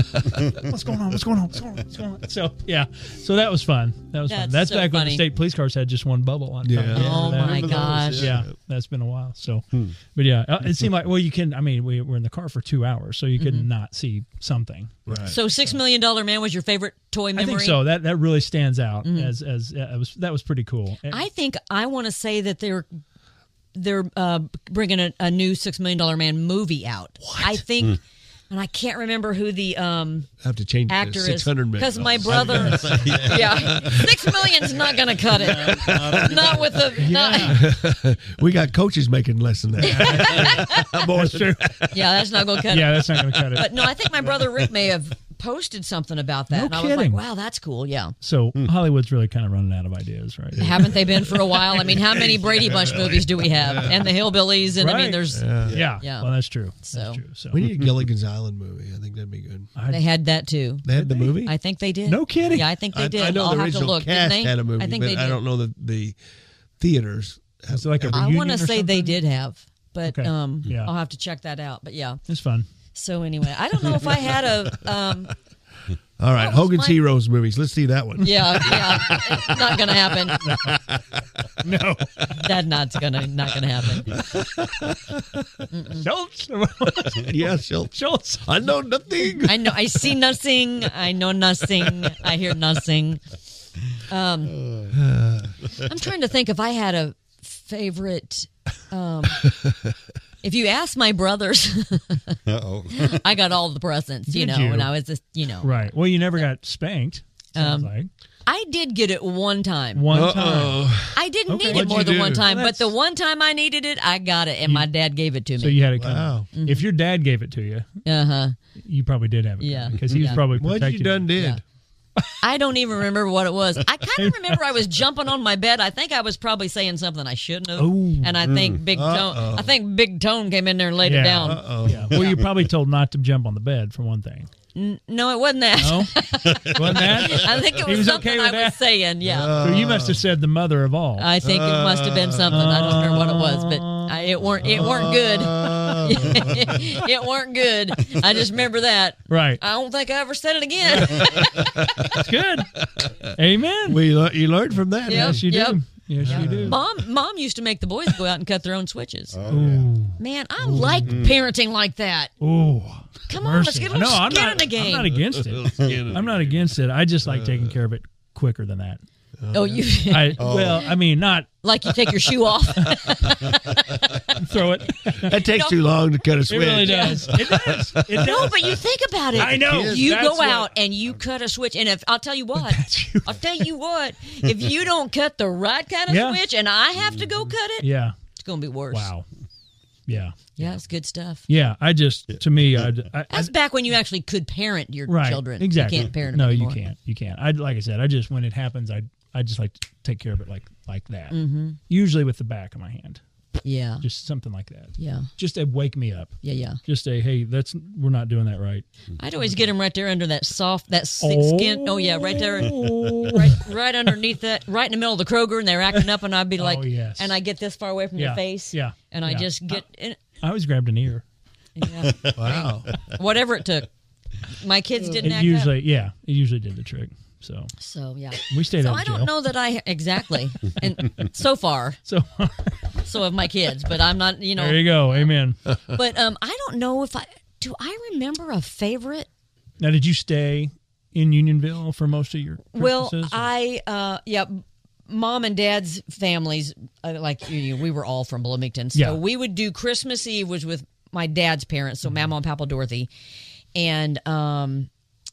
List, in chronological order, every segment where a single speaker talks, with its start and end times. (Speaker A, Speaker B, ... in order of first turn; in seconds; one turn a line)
Speaker A: 0.2-15.4
Speaker B: 4.3-5.3
Speaker C: 6.6-8.5
Speaker B: 6.9-8.4
Speaker D: 7.4-8.4
Speaker B: 13.4-13.7
Speaker C: 15.1-15.4
Speaker B: 15.3-17.8
Speaker A: 17.4-21.2
Speaker B: 19.0-19.3
Speaker B: 21.1-22.9
Speaker B: 23.7-30.3
Speaker C: 30.4-34.9
Speaker B: 30.9-37.6
Speaker D: 32.3-34.0
Speaker D: 35.4-36.9
Speaker C: 35.5-36.2
Speaker A: 37.0-37.7
Speaker C: 37.4-42.6
Speaker B: 39.8-41.0
Speaker A: 39.9-41.8
Speaker B: 41.9-48.1
Speaker A: 42.7-43.8
Speaker C: 43.2-43.6
Speaker A: 46.5-47.2
Speaker A: 48.2-51.8
Speaker C: 50.5-54.3
Speaker B: 50.6-56.3
Speaker A: 54.7-57.8
Speaker C: 55.3-55.9
Speaker B: 56.9-57.2
Speaker C: 57.5-59.7
Speaker A: 59.8-60.1
Speaker B: 59.9-65.4
Speaker C: 60.9-61.5
Speaker A: 62.1-62.7
Speaker C: 62.9-66.2
Speaker C: 66.8-68.3
Speaker A: 67.8-69.2
Speaker B: 68.1-72.2
Speaker A: 70.1-70.9
Speaker A: 72.3-72.7
Speaker B: 72.9-75.3
Speaker C: 76.2-81.7
Speaker B: 76.4-77.0
Speaker B: 78.2-80.5
Speaker A: 78.3-78.8
Speaker A: 81.6-82.6
Speaker B: 82.4-84.2
Speaker C: 84.1-85.3
Speaker B: 85.7-86.0
Speaker A: 86.0-88.5
Speaker C: 87.2-90.2
Speaker B: 89.5-93.2
Speaker B: 93.9-94.6
Speaker D: 94.5-95.0
Speaker C: 94.9-95.6
Speaker B: 95.8-99.5
Speaker C: 99.5-99.9
Speaker B: 100.4-102.4
Speaker D: 102.5-103.2
Speaker B: 102.9-105.7
Speaker A: 104.3-104.9
Speaker A: 105.6-108.1
Speaker B: 107.5-107.9
Speaker B: 108.5-110.1
Speaker A: 109.9-110.9
Speaker C: 110.1-112.5
Speaker B: 111.1-115.8
Speaker A: 111.5-112.9
Speaker A: 115.6-117.9
Speaker C: 116.0-116.5
Speaker B: 116.5-116.9
Speaker B: 118.0-118.5
Speaker A: 118.8-121.3
Speaker B: 119.6-120.5
Speaker C: 120.5-121.6
Speaker B: 122.4-131.6
Speaker A: 124.2-124.6
Speaker A: 127.8-128.5
Speaker C: 128.9-129.7
Speaker A: 131.0-134.5
Speaker C: 131.4-132.3
Speaker B: 134.7-139.6
Speaker A: 135.8-138.9
Speaker C: 139.2-140.3
Speaker A: 139.6-141.4
Speaker B: 141.2-152.2
Speaker C: 141.4-142.6
Speaker A: 142.5-145.0
Speaker C: 144.6-147.0
Speaker A: 146.3-146.8
Speaker A: 149.3-149.6
Speaker C: 151.2-152.3
Speaker A: 151.2-152.7
Speaker C: 152.8-155.6
Speaker A: 153.4-154.0
Speaker B: 155.1-159.4
Speaker A: 155.1-156.8
Speaker C: 156.2-156.8
Speaker D: 159.3-159.9
Speaker A: 159.5-161.3
Speaker C: 159.5-159.8
Speaker B: 160.2-162.3
Speaker A: 162.4-169.0
Speaker B: 163.3-165.2
Speaker C: 164.2-167.8
Speaker C: 169.4-170.7
Speaker B: 169.5-170.9
Speaker A: 170.1-171.5
Speaker D: 170.4-170.9
Speaker B: 171.6-174.4
Speaker A: 172.8-173.8
Speaker A: 174.3-175.4
Speaker C: 175.2-178.7
Speaker B: 175.5-175.8
Speaker A: 176.5-178.8
Speaker B: 176.8-177.4
Speaker B: 178.0-189.1
Speaker A: 179.4-180.7
Speaker D: 179.6-180.2
Speaker A: 182.6-183.6
Speaker A: 186.1-186.4
Speaker A: 187.8-188.2
Speaker A: 188.9-189.3
Speaker A: 190.1-190.7
Speaker B: 190.6-191.5
Speaker A: 191.5-193.5
Speaker B: 193.3-196.8
Speaker A: 195.1-201.4
Speaker B: 201.3-201.8
Speaker A: 201.9-203.2
Speaker B: 203.6-204.1
Speaker A: 204.0-208.8
Speaker B: 205.0-205.3
Speaker B: 206.4-206.8
Speaker B: 209.2-220.2
Speaker A: 209.4-209.7
Speaker A: 211.2-213.7
Speaker A: 216.6-217.3
Speaker A: 218.2-219.8
Speaker A: 220.4-221.2
Speaker B: 221.8-223.9
Speaker C: 222.3-222.9
Speaker B: 224.4-225.7
Speaker A: 225.2-227.7
Speaker B: 227.8-232.0
Speaker A: 228.5-229.3
Speaker A: 232.1-232.8
Speaker B: 233.0-235.3
Speaker A: 234.6-235.6
Speaker B: 235.9-239.3
Speaker A: 239.8-243.5
Speaker B: 242.7-253.1
Speaker A: 248.9-249.2
Speaker B: 253.8-254.9